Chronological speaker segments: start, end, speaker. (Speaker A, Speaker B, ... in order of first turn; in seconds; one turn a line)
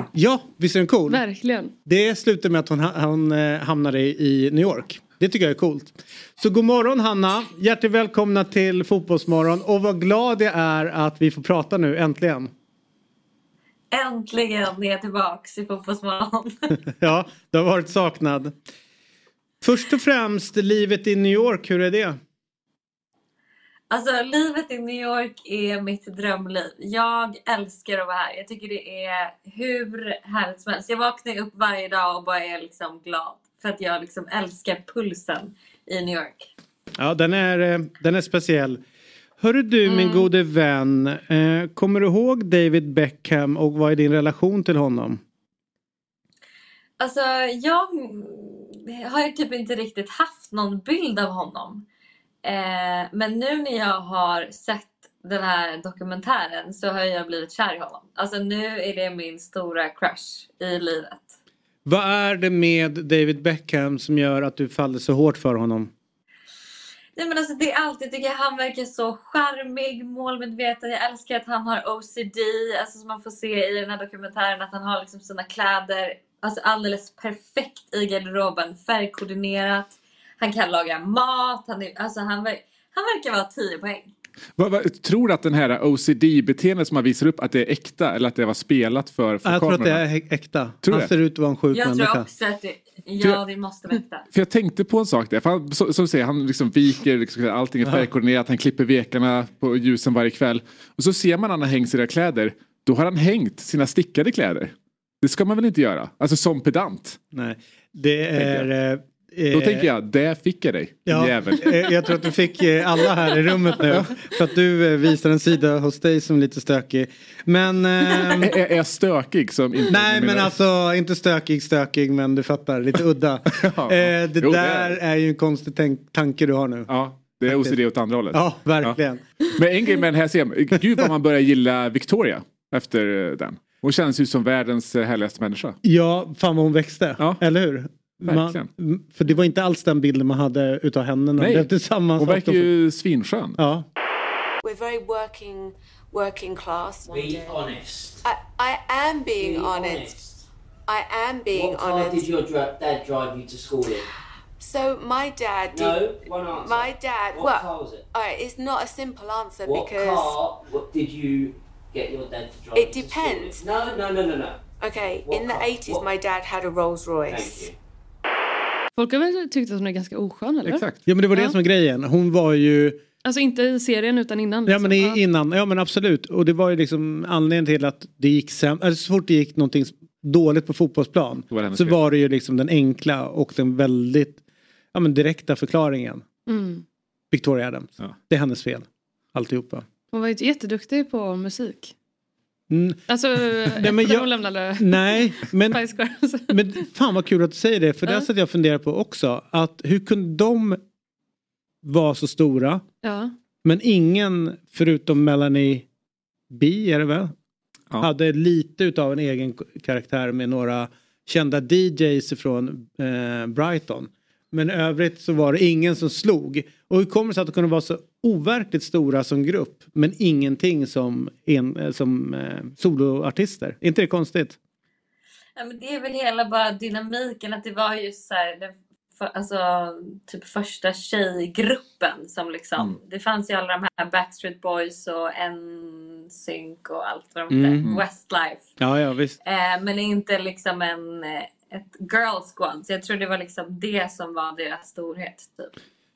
Speaker A: 0.1-1.2
Speaker B: 1.1-1.7
Speaker A: 1.8-12.5
Speaker C: 13.9-16.5
Speaker A: 17.0-18.6
Speaker A: 19.6-22.2
Speaker C: 23.9-36.5
Speaker A: 37.0-38.8
Speaker A: 39.4-45.2
Speaker B: 39.8-40.2
Speaker C: 47.0-51.9
Speaker C: 52.4-61.3
Speaker A: 61.8-65.9
Speaker C: 67.2-84.1
Speaker D: 84.5-90.0
Speaker A: 89.4-92.3
Speaker D: 90.8-91.1
Speaker C: 91.7-94.2
Speaker D: 94.3-107.2
Speaker A: 107.3-109.9
Speaker D: 108.3-108.7
Speaker D: 109.5-111.9
Speaker A: 111.0-118.5
Speaker D: 113.9-114.1
Speaker D: 118.4-120.5
Speaker A: 119.9-126.9
Speaker D: 123.5-125.0
Speaker D: 126.9-128.9
Speaker A: 127.5-127.8
Speaker A: 128.3-129.2
Speaker D: 129.5-135.8
Speaker A: 135.8-142.7
Speaker D: 138.2-138.7
Speaker D: 141.4-143.6
Speaker A: 143.6-143.8
Speaker E: 144.6-147.7
Speaker F: 147.1-148.2
Speaker E: 148.2-150.1
Speaker F: 149.4-150.4
Speaker E: 150.9-152.3
Speaker F: 151.5-154.1
Speaker E: 154.6-160.4
Speaker F: 155.7-158.0
Speaker F: 159.6-164.6
Speaker E: 162.7-163.7
Speaker E: 164.8-167.7
Speaker F: 165.2-166.1
Speaker F: 167.3-167.7
Speaker B: 168.9-171.5
Speaker D: 170.6-171.0
Speaker A: 171.1-173.0
Speaker B: 173.2-175.2
Speaker A: 174.7-184.4
Speaker D: 181.5-182.0
Speaker A: 184.9-186.2
Speaker B: 186.5-186.8
Speaker A: 187.3-189.8
Speaker B: 190.1-191.9
Speaker A: 192.7-194.2
Speaker B: 193.1-196.7
Speaker A: 194.8-195.8
Speaker A: 196.5-200.8
Speaker A: 201.8-202.8
Speaker B: 203.0-203.3
Speaker A: 203.6-205.8
Speaker A: 206.5-207.3
Speaker A: 208.0-224.6
Speaker C: 225.6-238.7
Speaker A: 237.5-237.8
Speaker A: 238.8-239.4
Speaker C: 239.4-245.7